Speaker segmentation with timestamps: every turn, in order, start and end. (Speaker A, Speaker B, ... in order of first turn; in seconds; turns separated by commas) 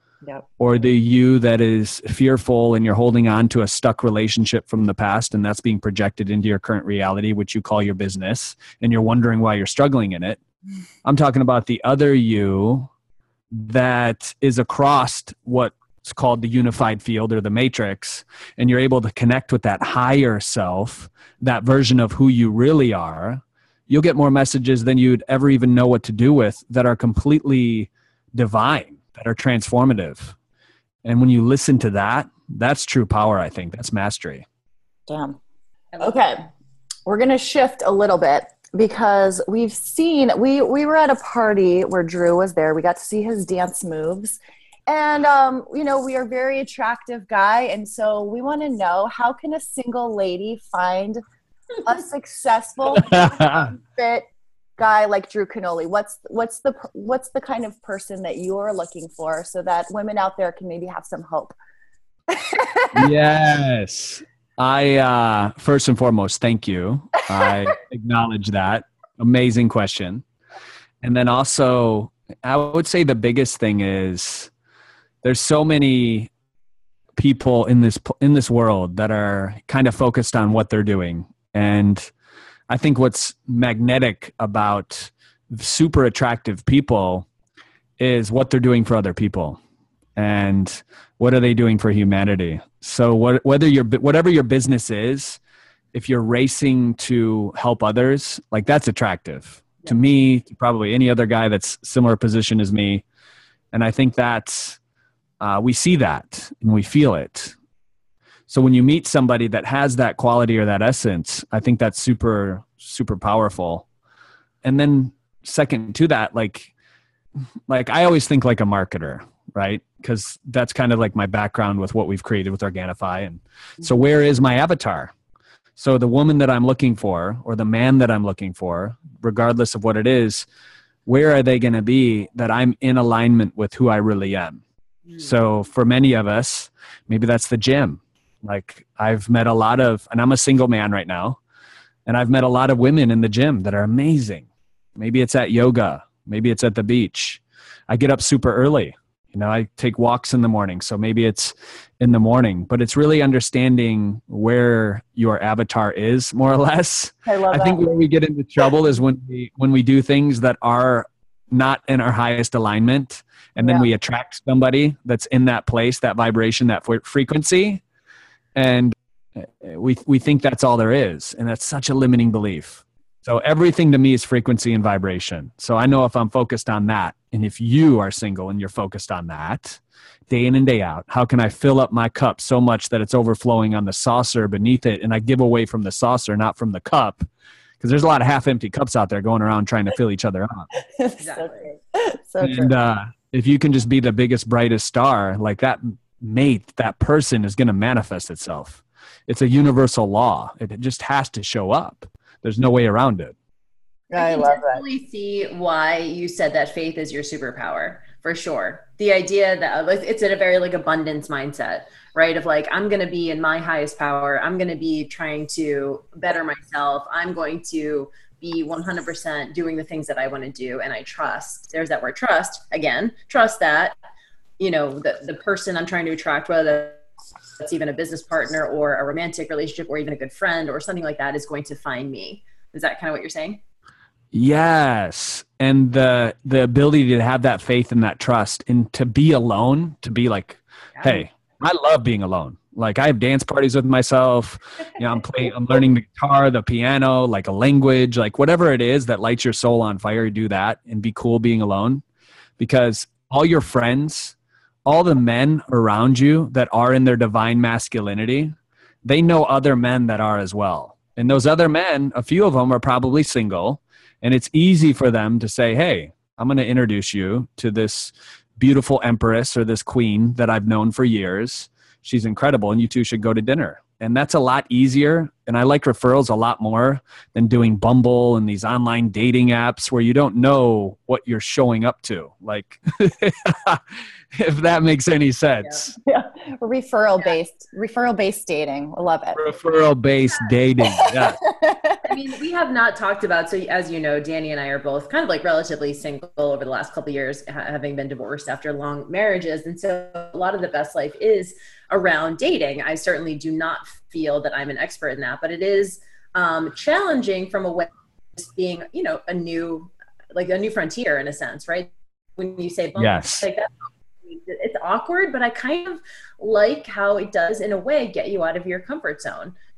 Speaker A: 0.6-10.4, Speaker A: 11.0-12.9, Speaker A: 13.5-30.3, Speaker A: 31.0-34.4, Speaker B: 35.1-35.4, Speaker C: 35.9-36.2, Speaker B: 36.0-36.4, Speaker B: 37.0-51.2, Speaker B: 51.8-54.3, Speaker A: 53.0-53.7, Speaker B: 54.8-61.5, Speaker B: 62.3-63.1, Speaker A: 62.9-70.2, Speaker A: 71.0-74.5, Speaker A: 75.2-76.3, Speaker A: 77.2-82.1, Speaker A: 82.7-87.3, Speaker A: 88.0-89.6, Speaker A: 90.2-95.4, Speaker A: 95.9-103.0, Speaker A: 103.7-104.8, Speaker A: 105.4-107.5, Speaker A: 108.5-113.8, Speaker A: 114.6-116.7, Speaker A: 117.7-125.1, Speaker A: 125.8-130.4, Speaker A: 131.1-134.6, Speaker A: 135.2-141.4, Speaker A: 142.1-167.8, Speaker B: 157.2-157.8, Speaker B: 163.6-163.9, Speaker A: 168.5-187.3, Speaker A: 187.8-190.7, Speaker B: 190.8-192.7, Speaker C: 191.2-191.7, Speaker A: 192.4-203.3, Speaker B: 204.1-204.8, Speaker C: 204.2-223.9, Speaker C: 224.6-227.0, Speaker C: 227.6-233.6, Speaker A: 234.3-252.0, Speaker A: 252.6-254.3, Speaker A: 254.8-283.8, Speaker A: 284.3-285.9, Speaker B: 286.1-289.4, Speaker A: 289.3-291.4, Speaker B: 291.0-292.0, Speaker C: 292.0-313.7, Speaker A: 312.9-313.4, Speaker C: 314.2-319.5